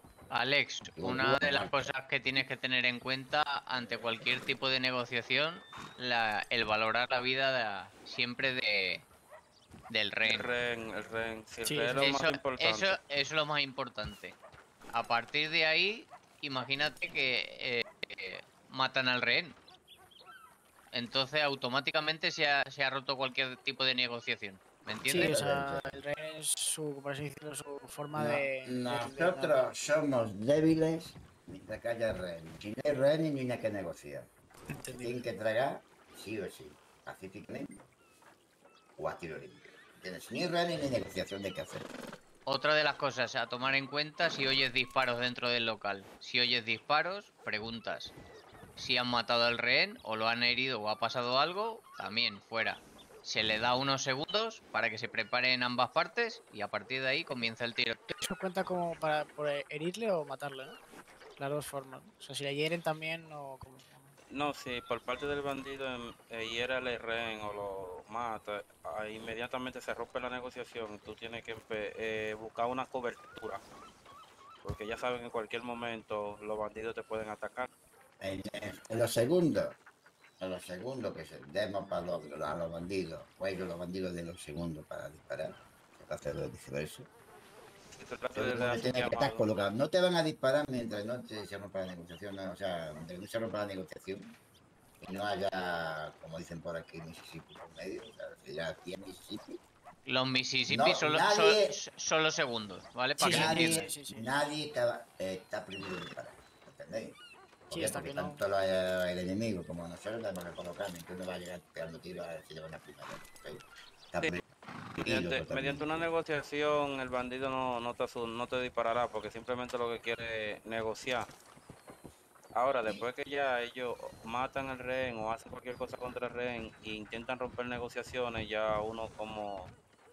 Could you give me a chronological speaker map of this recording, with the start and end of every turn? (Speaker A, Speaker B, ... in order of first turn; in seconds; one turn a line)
Speaker A: 0.3-9.1
Speaker B: 0.9-1.9
Speaker A: 9.9-10.5
Speaker C: 10.2-13.0
Speaker D: 11.7-11.9
Speaker A: 11.9-14.3
Speaker A: 14.9-19.6
Speaker A: 20.9-25.4
Speaker D: 25.1-29.6
Speaker B: 25.1-26.0
Speaker B: 28.1-34.3
Speaker D: 34.7-35.2
Speaker B: 34.9-37.8
Speaker B: 39.0-41.9
Speaker A: 42.5-48.1
Speaker A: 48.8-58.1
Speaker D: 58.1-60.8
Speaker D: 61.4-64.1
Speaker C: 64.3-73.6
Speaker C: 74.6-77.7
Speaker B: 78.2-79.8
Speaker B: 80.4-87.1
Speaker C: 88.0-89.5
Speaker B: 88.3-94.3
Speaker B: 95.0-99.6
Speaker A: 100.0-103.8
Speaker B: 100.7-101.8
Speaker D: 103.2-104.3
Speaker B: 103.2-107.2
Speaker D: 107.7-108.4
Speaker B: 107.7-114.4
Speaker B: 115.0-115.9
Speaker C: 115.0-121.3
Speaker C: 122.5-129.7